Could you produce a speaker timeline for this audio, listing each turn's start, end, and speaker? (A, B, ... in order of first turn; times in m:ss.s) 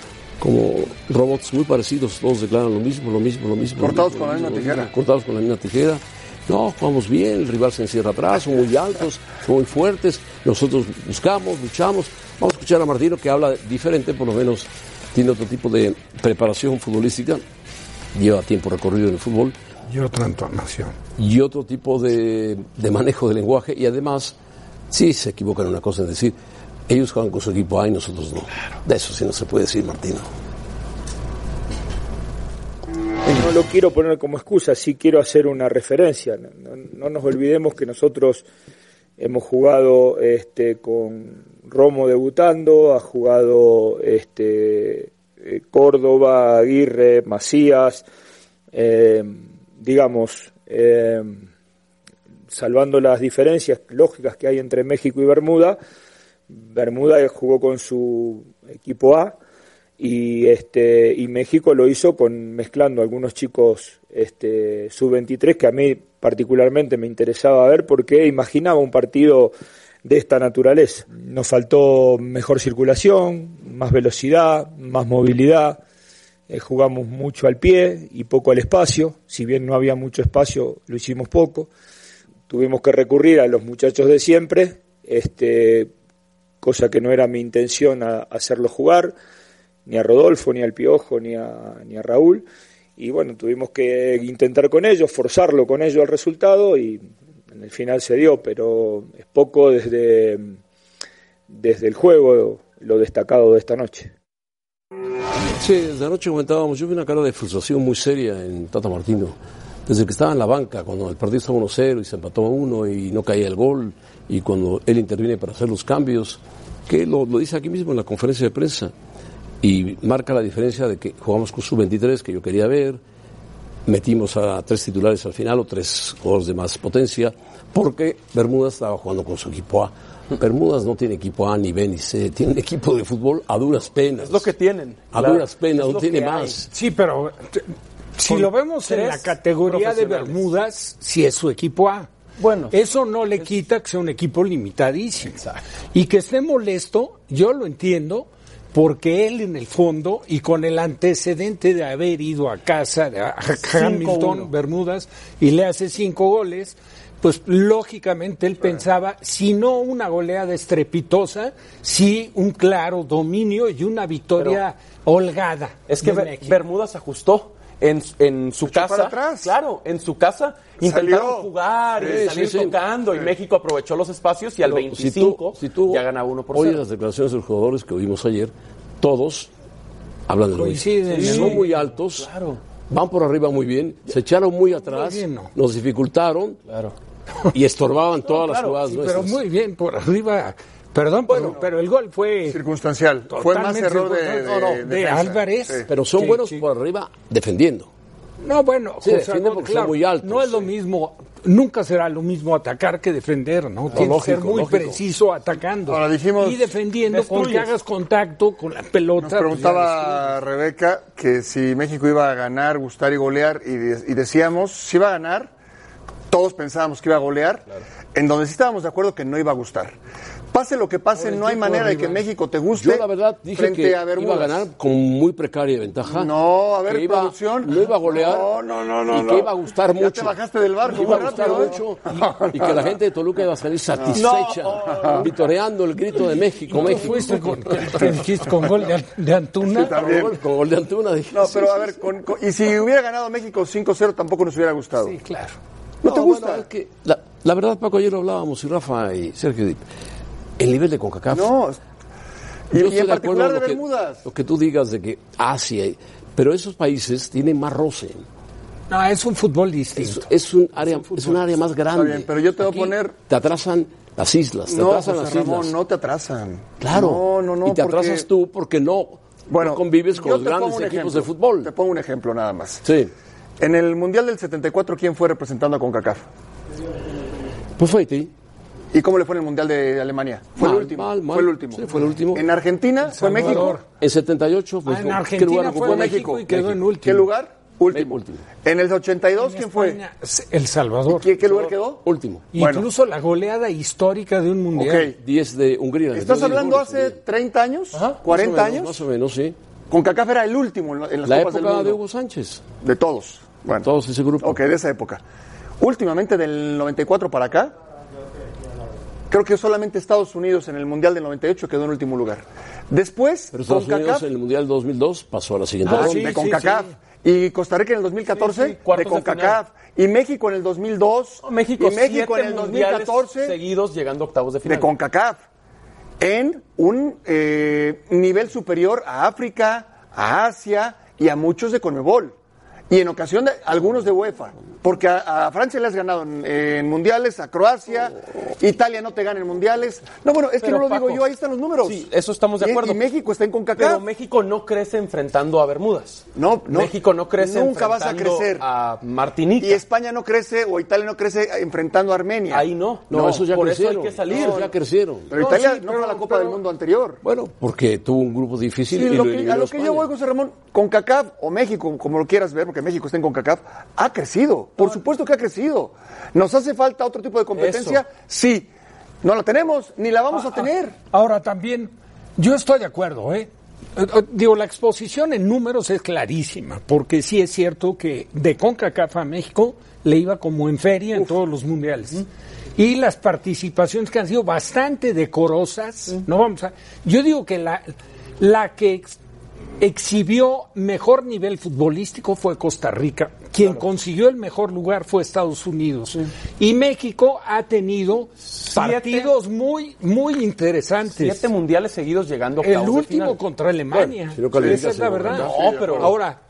0:00.4-0:17.4 A
0:03.8-0:04.9 B
0:18.1-0:19.6 A
0:19.9-0:21.0 C
0:21.2-0:24.4 A
0:24.9-0:26.4 A
0:26.9-0:30.3 A
0:33.3-0:38.4 D
0:39.2-0:48.0 D
0:48.7-0:51.4 D
0:52.5-0:55.8 D
0:56.6-0:59.4 D
1:00.0-1:15.8 D
1:16.5-1:21.7 D
1:22.5-1:25.9 D
1:26.6-1:29.2 D
1:29.9-1:32.4 D
1:33.0-1:40.6 D
1:41.5-1:44.1 D
1:45.6-1:58.9 A
1:59.6-2:03.0 A
2:03.9-2:14.5 A
2:14.2-2:16.7 E
2:15.1-2:16.7 A
2:16.7-2:22.1 C
2:18.3-2:20.5 E
2:22.4-2:22.8 E
2:22.7-2:25.4 C
2:25.9-2:46.6 C
2:33.6-2:34.5 E
2:45.9-2:56.8 E
2:48.7-2:49.6 B
2:50.8-2:51.5 B
2:52.0-2:52.8 A
2:54.6-2:59.5 A
3:00.3-3:02.3 A
3:00.5-3:01.8 C
3:01.1-3:01.7 E
3:02.2-3:02.6 E
3:02.9-3:06.6 A
3:04.8-3:05.5 C
3:06.7-3:06.9 E
3:07.5-3:09.4 A
3:08.3-3:08.8 E
3:08.8-3:12.6 C
3:12.5-3:15.9 B
3:13.3-3:16.6 C
3:15.9-3:17.9 A
3:18.4-3:30.2 C
3:19.0-3:20.7 A
3:23.9-3:25.0 A
3:25.9-3:26.7 B
3:27.1-3:27.7 E
3:29.2-3:35.5 B
3:36.3-3:40.0 B
3:40.5-3:44.6 B
3:41.2-3:42.2 E
3:41.6-3:42.1 A
3:42.7-3:46.3 A
3:46.1-3:52.9 B
3:46.8-3:48.6 A
3:49.1-3:58.1 A
3:54.1-3:55.3 E
3:54.9-3:55.2 B
3:56.7-4:00.0 C
3:59.7-4:00.4 B
3:59.8-4:02.0 A
4:01.3-4:05.2 B
4:05.0-4:05.6 C
4:06.0-4:09.8 A
4:06.0-4:06.6 B
4:10.6-4:11.5 A
4:11.3-4:11.8 B
4:12.7-4:14.2 B
4:12.7-4:18.2 A
4:18.9-4:21.4 C
4:20.0-4:25.8 A
4:21.9-4:23.2 B
4:24.7-4:28.3 B
4:26.8-4:31.7 A
4:29.5-4:32.8 B
4:32.8-4:33.1 A
4:33.6-4:36.3 B
4:37.8-4:38.3 A
4:38.9-4:43.8 B
4:40.6-4:42.4 A
4:43.1-4:43.8 C
4:43.4-4:46.8 A
4:44.8-4:47.3 C
4:45.8-4:50.0 B
4:47.9-4:48.4 A
4:49.4-4:51.3 C
4:51.1-4:52.0 B
4:52.0-4:52.5 A
4:52.5-4:55.1 C
4:52.6-4:52.9 B
4:54.7-4:55.1 B
4:55.1-4:57.2 A
4:56.1-4:59.0 B
4:57.9-4:58.2 E
4:58.3-4:59.6 A
4:59.9-5:02.0 B
5:01.2-5:02.6 A
5:02.8-5:03.9 B
5:03.8-5:04.6 A
5:04.4-5:05.2 B
5:05.8-5:07.7 B
5:09.3-5:14.3 B
5:13.5-5:16.4 A
5:15.9-5:16.6 E
5:15.9-5:23.6 B
5:16.1-5:16.9 C
5:18.3-5:19.6 E
5:21.4-5:24.9 E
5:24.6-5:25.4 B
5:26.2-5:32.4 B
5:32.9-5:42.1 B
5:40.6-5:41.3 E
5:41.8-5:43.0 E
5:42.6-5:44.0 B
5:43.8-5:49.8 E
5:46.4-5:48.6 B
5:49.6-5:52.7 B
5:52.5-5:54.7 E
5:53.1-5:55.3 A
5:54.3-5:54.7 B
5:55.3-5:57.2 B
5:55.3-5:56.6 C
5:57.2-6:00.1 A
5:58.9-6:08.7 B
6:07.5-6:08.0 E
6:09.2-6:11.0 B
6:11.1-6:29.2 C
6:29.8-6:41.5 C
6:38.6-6:39.3 E
6:41.0-6:43.4 E
6:42.6-6:46.4 C
6:44.3-6:45.6 A
6:44.6-6:46.2 B
6:45.3-6:46.2 E